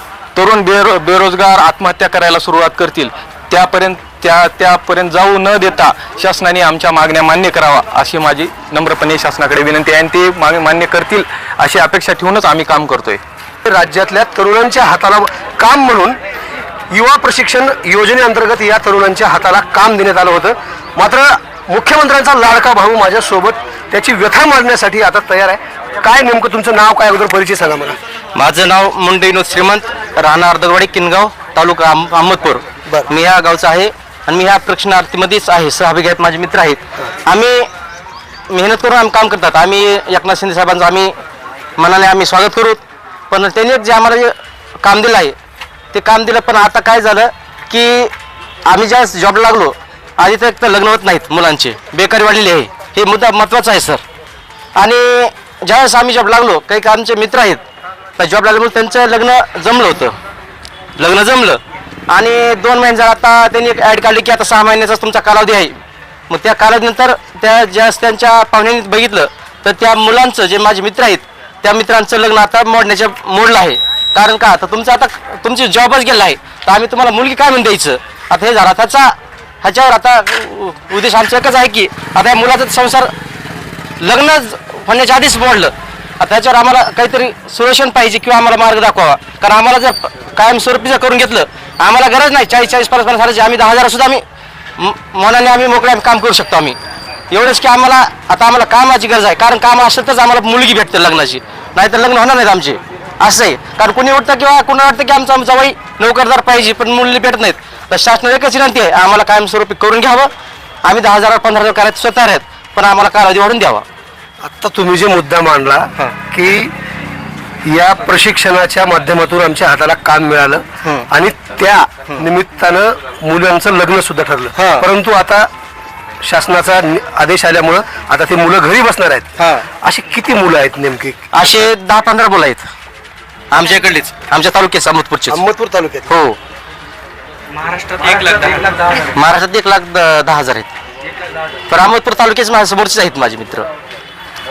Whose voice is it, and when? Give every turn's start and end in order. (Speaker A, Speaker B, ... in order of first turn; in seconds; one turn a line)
Speaker A: 0.3-13.2
Speaker B: 13.6-16.2
Speaker B: 16.9-28.0
Speaker C: 28.4-32.6
Speaker B: 32.8-33.1
Speaker C: 33.1-37.7
Speaker C: 38.5-41.1
Speaker C: 41.8-45.3
Speaker C: 45.9-48.1
Speaker C: 48.7-54.0
Speaker C: 54.8-57.6
Speaker C: 58.2-60.1
Speaker C: 61.0-61.6
Speaker C: 62.1-83.1
Speaker C: 84.0-94.2
Speaker C: 94.8-96.8
Speaker C: 97.3-110.3
Speaker C: 110.8-113.8
Speaker B: 114.4-116.7
Speaker B: 117.6-125.5
Speaker B: 126.2-129.3
Speaker B: 129.8-131.2
Speaker C: 131.6-132.7
Speaker C: 133.5-135.4
Speaker B: 135.3-136.1
Speaker C: 136.1-136.3
Speaker C: 139.2-140.7
Speaker C: 141.7-143.7